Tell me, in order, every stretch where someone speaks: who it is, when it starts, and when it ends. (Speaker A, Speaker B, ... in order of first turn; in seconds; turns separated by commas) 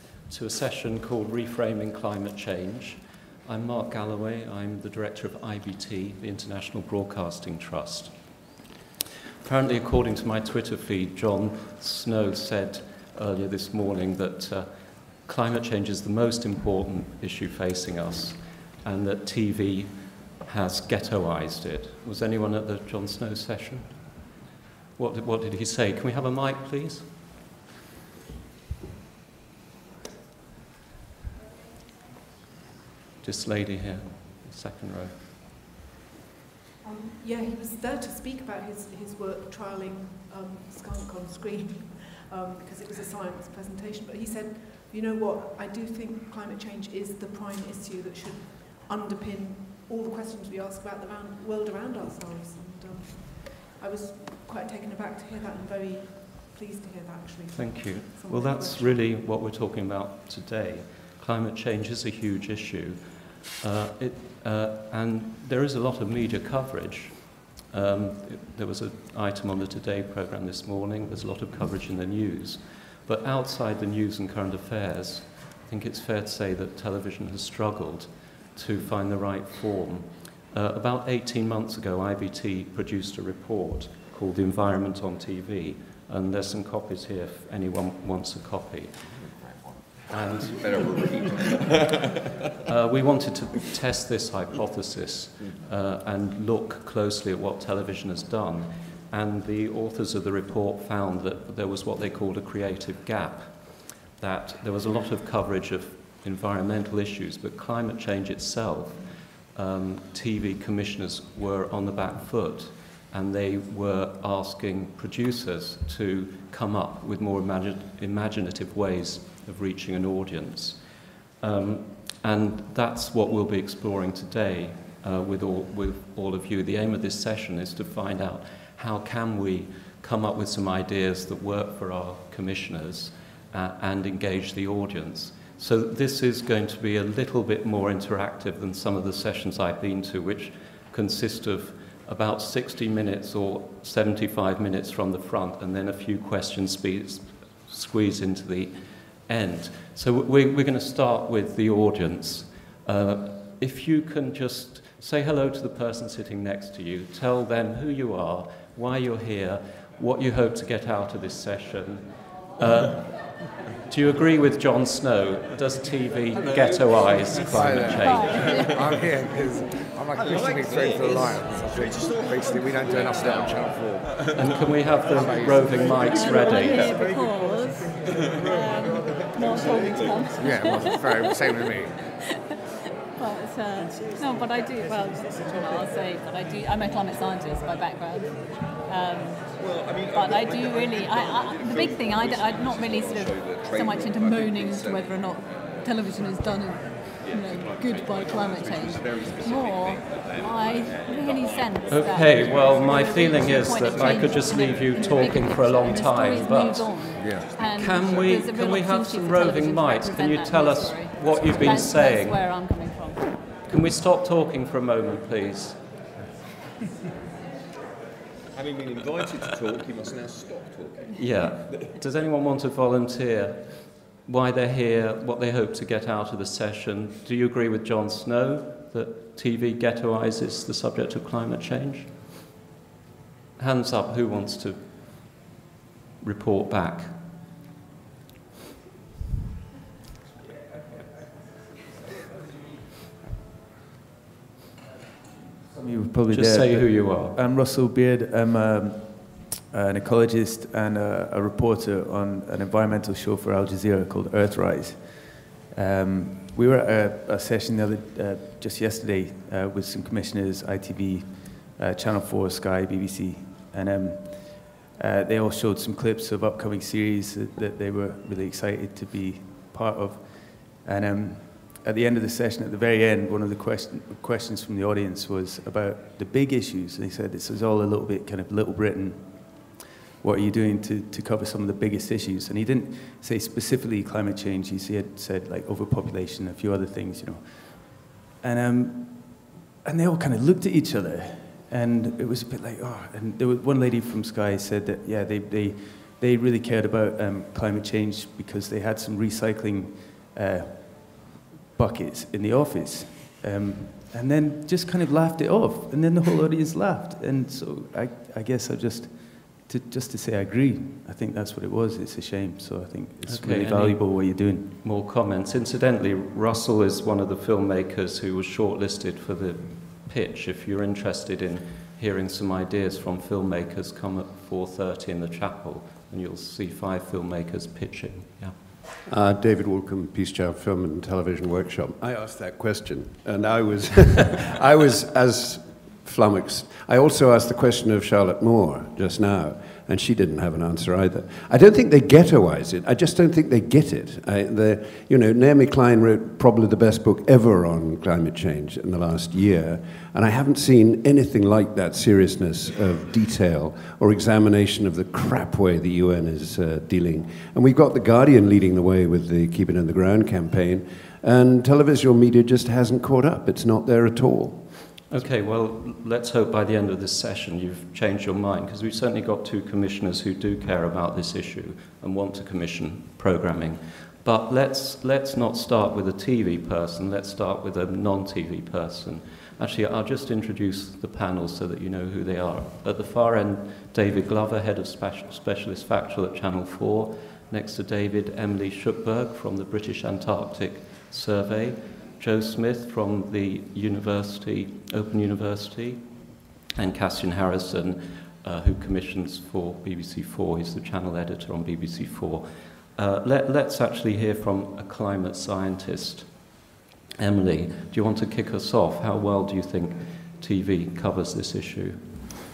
Speaker A: 0.3-8.1, Speaker A: 9.4-24.2, Speaker A: 25.0-27.1, Speaker A: 33.2-35.2, Speaker B: 36.8-59.1, Speaker A: 57.5-88.9, Speaker C: 89.1-92.0, Speaker A: 90.1-91.5, Speaker A: 92.6-168.5, Speaker C: 166.4-167.3, Speaker D: 167.3-174.1, Speaker E: 168.2-168.7, Speaker C: 168.2-169.1, Speaker C: 170.1-177.0, Speaker A: 174.3-176.9, Speaker D: 175.1-177.1, Speaker E: 176.1-181.7, Speaker C: 178.1-180.3, Speaker D: 179.4-182.0, Speaker E: 183.2-189.5, Speaker C: 189.6-195.8, Speaker E: 190.1-213.2, Speaker C: 197.2-201.8, Speaker A: 201.9-212.4, Speaker C: 202.3-202.5, Speaker D: 207.2-207.5, Speaker A: 213.7-215.8, Speaker C: 218.5-221.9, Speaker A: 221.2-232.3, Speaker A: 233.6-235.4, Speaker A: 236.2-237.2, Speaker F: 245.7-314.7, Speaker A: 246.3-247.3, Speaker A: 313.2-328.6, Speaker G: 329.1-365.0, Speaker A: 365.1-406.6, Speaker A: 407.2-412.0